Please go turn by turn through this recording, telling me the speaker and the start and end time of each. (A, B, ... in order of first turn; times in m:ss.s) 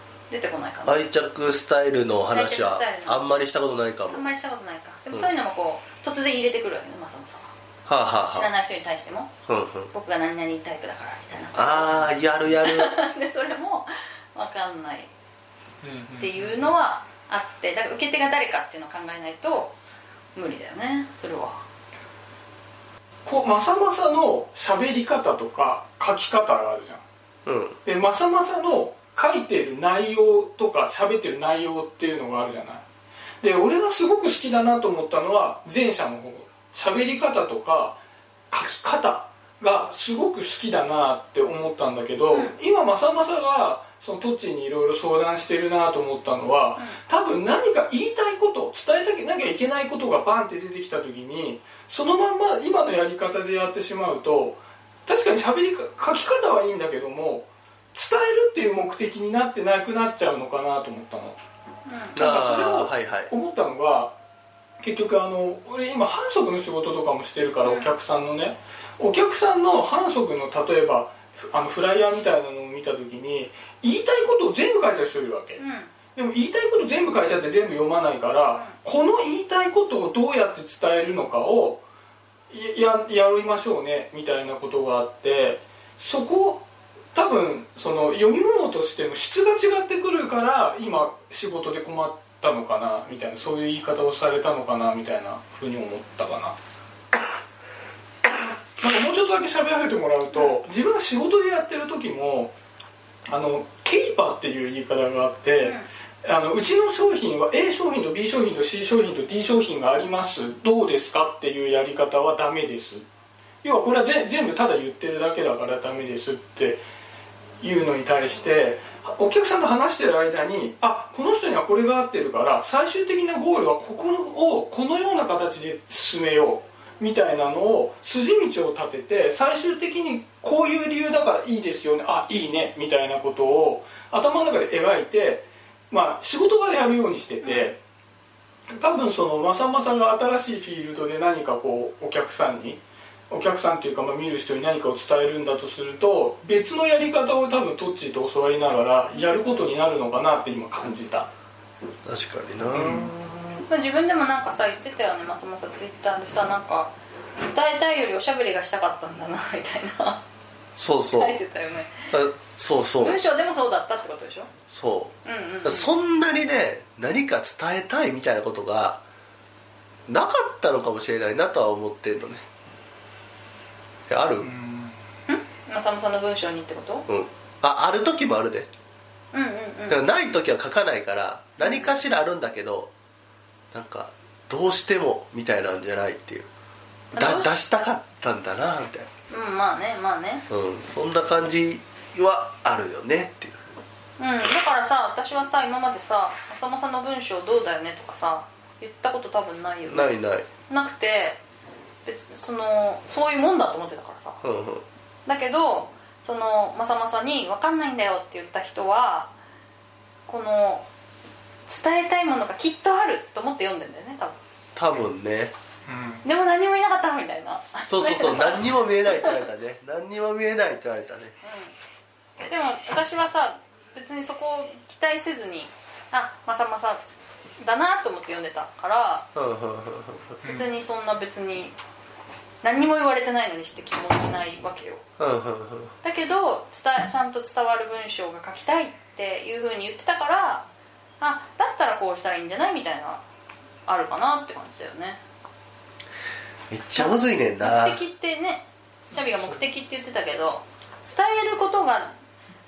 0:00.3-0:01.1 A
0:00.8-0:04.2 B
0:02.3-0:03.5 A
0:04.1-0:07.5 A
0:07.8-0:08.5 B
0:08.3-0:09.3 A
0:09.5-0:09.9 B
0:09.9-0:15.1 A
0:11.5-0:12.9 B
0:15.8-0:16.7 C
0:16.2-0:19.7 A
0:20.3-0:21.6 A
0:23.2-0:27.0 C
0:27.4-0:27.8 B
0:27.8-0:32.8 C
0:33.4-0:38.0 C
0:38.5-1:01.4 C
1:01.8-1:02.2 A
1:02.1-1:03.3 B
1:02.2-1:04.1 C
1:04.8-1:15.6 C
1:07.6-1:07.9 A
1:15.6-1:15.9 A
1:16.1-1:21.8 C
1:22.5-1:36.6 C
1:38.8-1:42.5 C
1:43.3-1:53.0 C
1:45.6-1:45.9 A
1:53.6-1:56.8 C
1:57.6-2:17.8 C
2:17.4-2:17.7 A
2:18.7-2:31.3 C
2:29.1-2:29.6 A
2:32.0-2:33.6 B
2:32.7-2:33.1 C
2:33.7-2:40.2 A
2:40.8-2:41.4 B
2:41.1-2:42.1 A
2:42.1-2:43.2 B
2:43.0-2:44.5 A
2:44.7-2:49.0 B
2:45.2-2:45.9 A
2:50.1-2:52.4 B
2:54.1-2:54.5 B
2:54.4-2:55.0 C
2:55.3-2:57.0 A
2:57.1-2:58.7 B
2:59.3-3:00.0 A
2:59.9-3:02.9 B
3:01.6-3:02.0 A
3:03.7-3:06.5 B
3:07.1-3:07.5 A
3:07.2-3:09.1 B
3:09.3-3:10.4 A
3:10.5-3:13.6 B
3:14.2-3:20.1 A
3:19.9-3:20.5 B
3:20.7-3:21.4 A
3:22.0-3:24.4 A
3:24.4-3:24.8 B
3:25.2-3:29.3 A
3:30.3-3:30.8 A
3:31.7-3:34.4 A
3:34.7-3:35.5 B
3:35.9-3:36.2 C
3:36.2-3:39.3 A
3:37.9-3:41.3 B
3:41.4-3:41.7 A
3:42.4-3:47.0 A
3:47.6-3:49.3 A
3:49.3-3:50.4 B
3:50.4-3:51.7 A
3:52.6-3:55.0 A
3:55.2-3:55.9 B
3:56.0-4:00.6 A
4:01.2-4:03.2 A
4:03.9-4:05.2 A
4:06.7-4:08.0 B
4:07.0-4:12.1 A